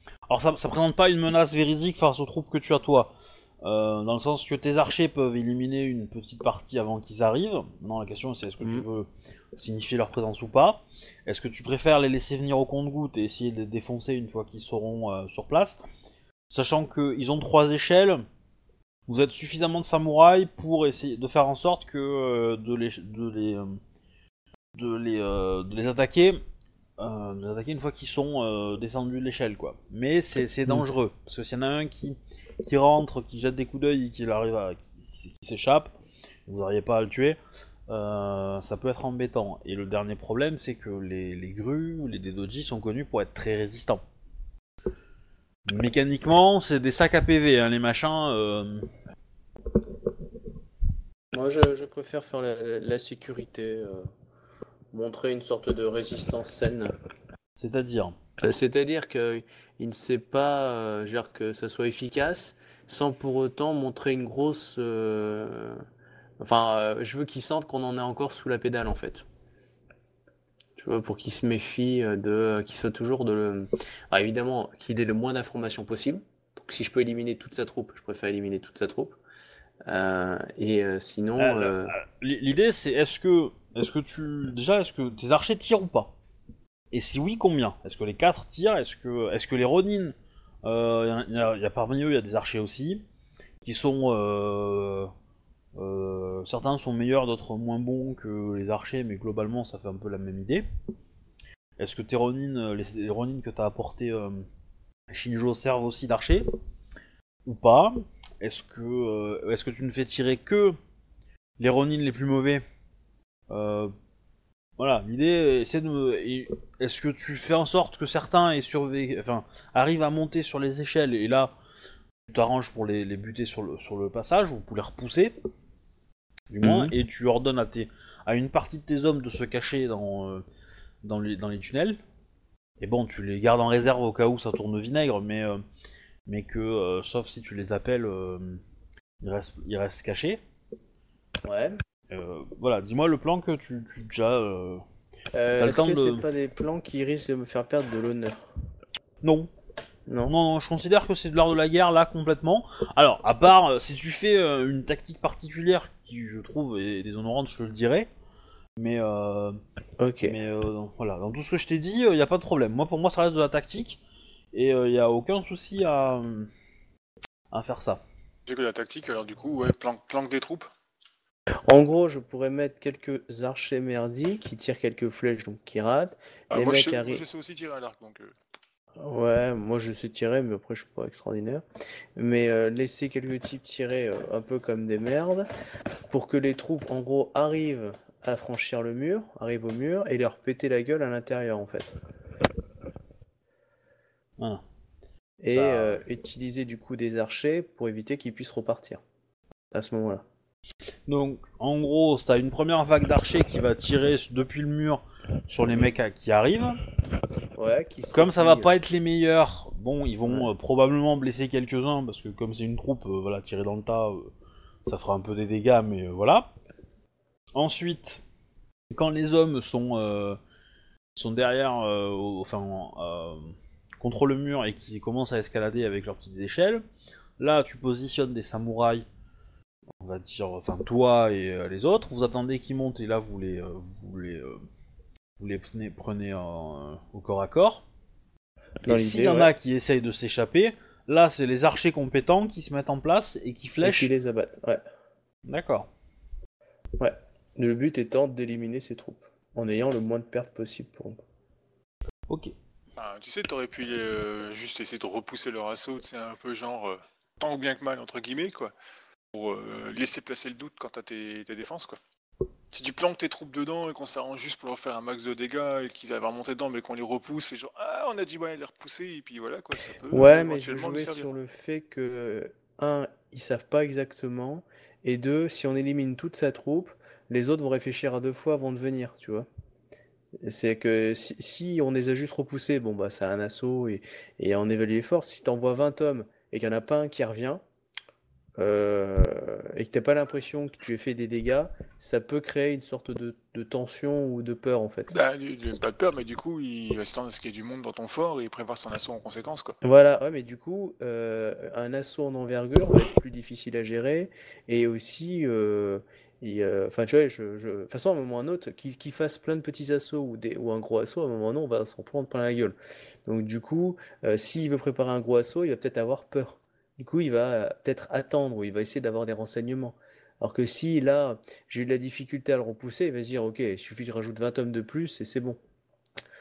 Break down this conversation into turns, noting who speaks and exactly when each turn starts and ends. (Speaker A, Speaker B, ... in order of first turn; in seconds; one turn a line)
Speaker A: 0.3-15.8
Speaker A: 16.5-18.2
Speaker A: 19.1-23.8
Speaker A: 24.8-26.4
Speaker A: 27.0-35.9
Speaker A: 36.5-37.4
Speaker A: 37.9-44.0
Speaker A: 45.7-48.9
Speaker B: 51.3-54.1
Speaker B: 54.9-56.9
Speaker A: 57.6-58.1
Speaker B: 58.4-65.8
Speaker B: 66.4-69.2
Speaker B: 70.8-79.2
Speaker B: 79.8-81.9
Speaker A: 81.4-86.1
Speaker A: 86.9-93.0
Speaker A: 93.6-95.1
Speaker A: 95.8-100.7
Speaker A: 101.8-104.5
Speaker A: 105.1-106.5
Speaker A: 107.4-110.8
Speaker A: 111.6-112.6
Speaker A: 113.5-113.9
Speaker A: 114.8-121.5
Speaker A: 122.3-125.3
Speaker A: 126.5-130.4
Speaker B: 126.6-126.9
Speaker A: 131.0-132.0
Speaker A: 132.8-135.6
Speaker A: 136.2-138.6
Speaker A: 139.2-140.4
Speaker B: 141.4-141.8
Speaker A: 142.1-144.8
Speaker B: 145.3-148.5
Speaker A: 145.6-146.2
Speaker A: 149.2-149.5
Speaker B: 150.1-150.3
Speaker A: 150.3-158.1
Speaker A: 158.8-159.6
Speaker B: 160.0-160.3
Speaker A: 160.2-164.0
Speaker A: 164.5-166.5
Speaker A: 167.5-168.0
Speaker C: 168.4-170.7
Speaker B: 171.7-177.2
Speaker C: 176.5-178.3
Speaker B: 179.0-181.6
Speaker B: 182.2-185.5
Speaker B: 186.1-192.0
Speaker B: 195.4-199.0
Speaker A: 195.5-196.0
Speaker B: 199.7-200.2
Speaker A: 201.1-206.8
Speaker B: 207.5-208.7
Speaker A: 208.1-214.3
Speaker A: 214.8-216.5
Speaker A: 217.5-218.2
Speaker A: 218.9-220.4
Speaker A: 221.2-226.8
Speaker A: 227.4-229.0
Speaker A: 230.0-234.6
Speaker A: 235.4-237.8
Speaker B: 238.8-239.5
Speaker A: 238.8-244.1
Speaker B: 243.8-244.8
Speaker A: 245.5-245.9
Speaker B: 247.0-251.2
Speaker C: 253.0-258.7
Speaker C: 259.3-262.0
Speaker C: 262.7-271.3
Speaker B: 270.1-279.5
Speaker B: 280.4-287.6
Speaker B: 288.6-295.1
Speaker C: 295.1-299.8
Speaker B: 299.8-325.6